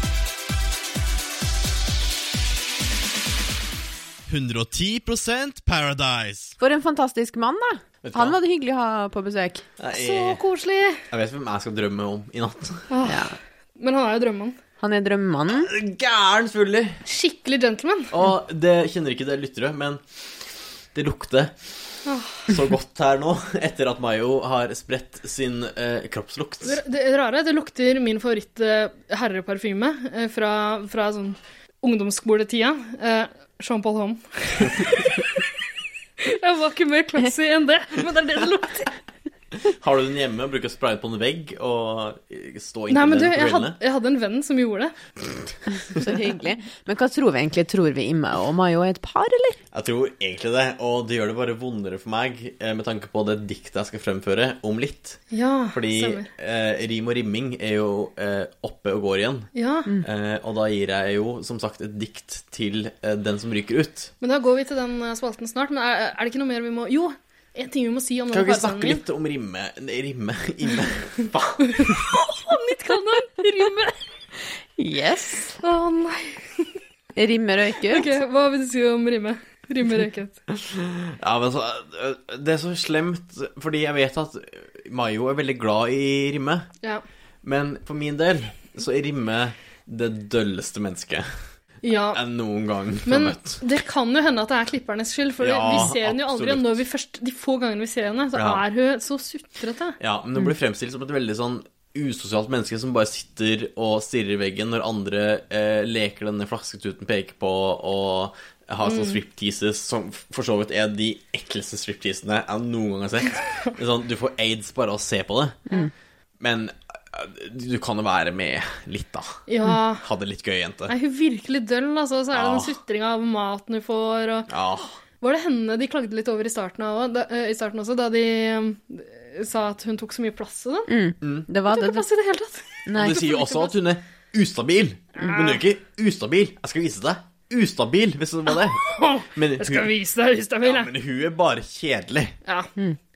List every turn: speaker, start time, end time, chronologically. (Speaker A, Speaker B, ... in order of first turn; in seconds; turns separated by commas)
Speaker A: 4.3-6.6, Speaker B: 6.6-9.7, Speaker A: 8.0-8.4, Speaker A: 9.8-10.4, Speaker C: 9.9-11.0, Speaker A: 11.1-12.9, Speaker C: 12.9-14.6, Speaker B: 13.1-13.3, Speaker B: 14.8-15.7, Speaker A: 15.5-17.0, Speaker C: 17.1-18.1, Speaker A: 18.1-20.0, Speaker A: 20.9-21.5, Speaker C: 22.1-22.4, Speaker A: 22.5-26.8, Speaker C: 26.6-35.4, Speaker C: 36.2-38.9, Speaker A: 39.6-43.8, Speaker C: 42.9-44.9, Speaker B: 46.0-49.6, Speaker A: 49.7-59.5, Speaker C: 55.3-56.3, Speaker C: 59.5-59.9, Speaker A: 60.0-64.1, Speaker C: 64.2-69.0, Speaker A: 68.3-72.0, Speaker C: 71.7-74.0, Speaker B: 74.8-75.6, Speaker C: 75.6-76.7, Speaker B: 77.2-78.1, Speaker C: 77.9-80.4, Speaker A: 80.6-86.7, Speaker A: 87.4-91.3, Speaker C: 91.8-92.2, Speaker A: 92.1-93.6, Speaker C: 93.1-100.0, Speaker A: 95.4-96.8, Speaker A: 98.3-98.6, Speaker A: 100.0-115.7, Speaker C: 108.8-109.2, Speaker A: 116.4-119.4, Speaker C: 119.5-120.0, Speaker A: 120.0-120.9, Speaker C: 120.9-124.5, Speaker A: 122.3-122.8, Speaker A: 124.5-124.9, Speaker C: 125.2-130.9, Speaker B: 130.9-132.1, Speaker A: 131.2-131.5, Speaker C: 131.7-133.8, Speaker B: 132.9-133.3, Speaker A: 132.9-139.9, Speaker C: 135.2-135.6, Speaker C: 138.8-140.9, Speaker A: 140.6-142.4, Speaker C: 142.4-142.7